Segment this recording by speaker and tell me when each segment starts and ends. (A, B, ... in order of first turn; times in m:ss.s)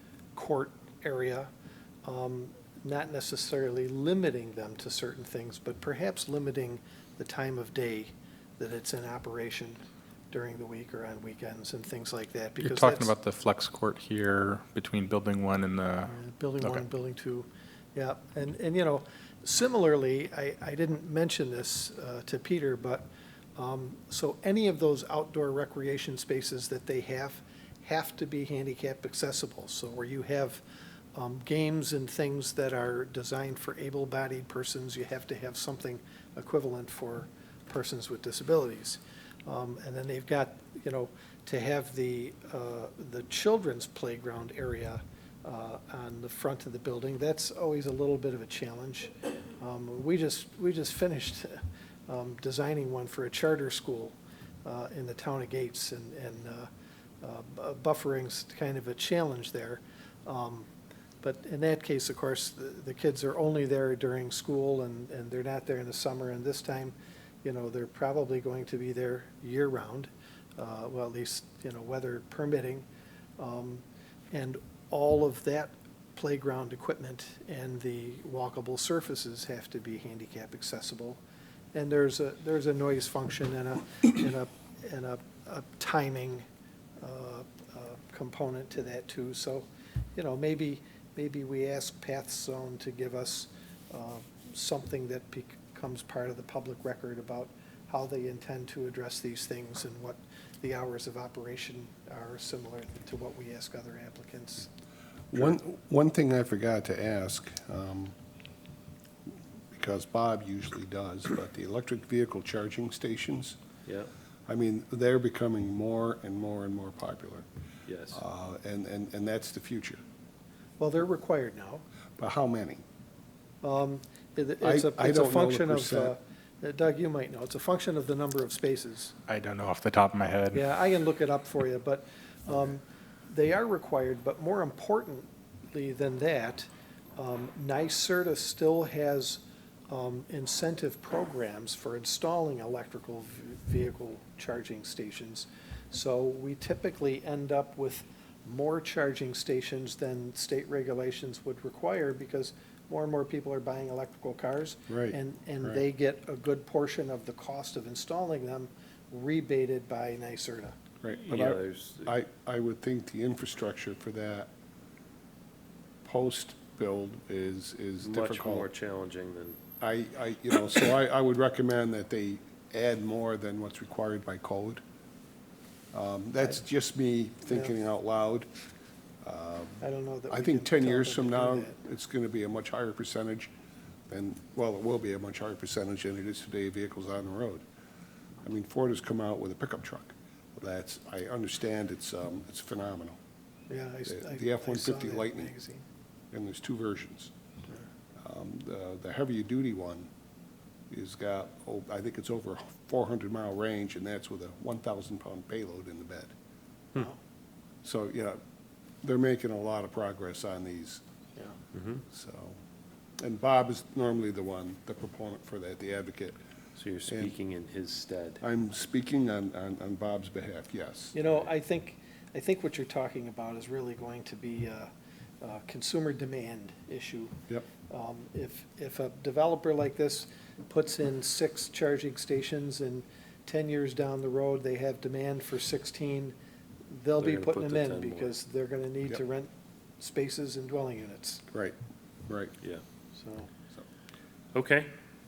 0:00.4-0:01.5 A
0:02.0-0:09.8 A
0:10.3-0:13.1 A
0:12.6-0:16.8 B
0:16.1-0:30.6 A
0:31.1-0:56.7 A
0:57.2-1:00.7 A
1:01.2-1:12.9 A
1:13.4-1:21.2 A
1:21.7-1:26.4 A
1:27.0-1:44.7 A
1:45.3-1:48.1 C
1:49.7-1:53.6 C
1:53.9-1:54.1 D
1:54.5-1:57.5 C
1:57.9-1:58.2 D
1:58.1-2:00.0 C
2:00.8-2:01.8 A
2:02.2-2:02.8 C
2:03.6-2:09.2 A
2:04.6-2:06.2 C
2:09.3-2:10.6 B
2:10.5-2:40.8 A
2:34.9-2:35.8 C
2:41.0-2:44.5 C
2:41.1-2:42.1 D
2:46.0-2:48.7 C
2:48.0-2:49.6 D
2:49.8-2:54.8 C
2:55.9-2:58.5 C
2:59.2-3:03.5 C
2:59.8-3:01.8 A
3:04.1-3:07.6 C
3:08.4-3:13.2 C
3:13.7-3:15.8 A
3:14.1-3:15.5 C
3:16.3-3:17.3 C
3:18.2-3:20.1 C
3:20.9-3:26.3 C
3:27.8-3:28.4 C
3:29.0-3:31.0 C
3:31.7-3:32.0 D
3:32.1-3:32.6 C
3:33.2-3:36.4 C
3:36.8-3:38.4 D
3:37.1-3:37.3 C
3:38.4-3:41.3 C
3:41.1-3:44.9 A
3:45.4-3:47.4 A
3:47.9-3:56.4 A
3:56.9-4:01.4 A
3:57.2-3:58.4 D
4:01.5-4:01.8 C
4:02.3-4:02.6 C
4:03.2-4:03.5 A
4:04.5-4:04.9 D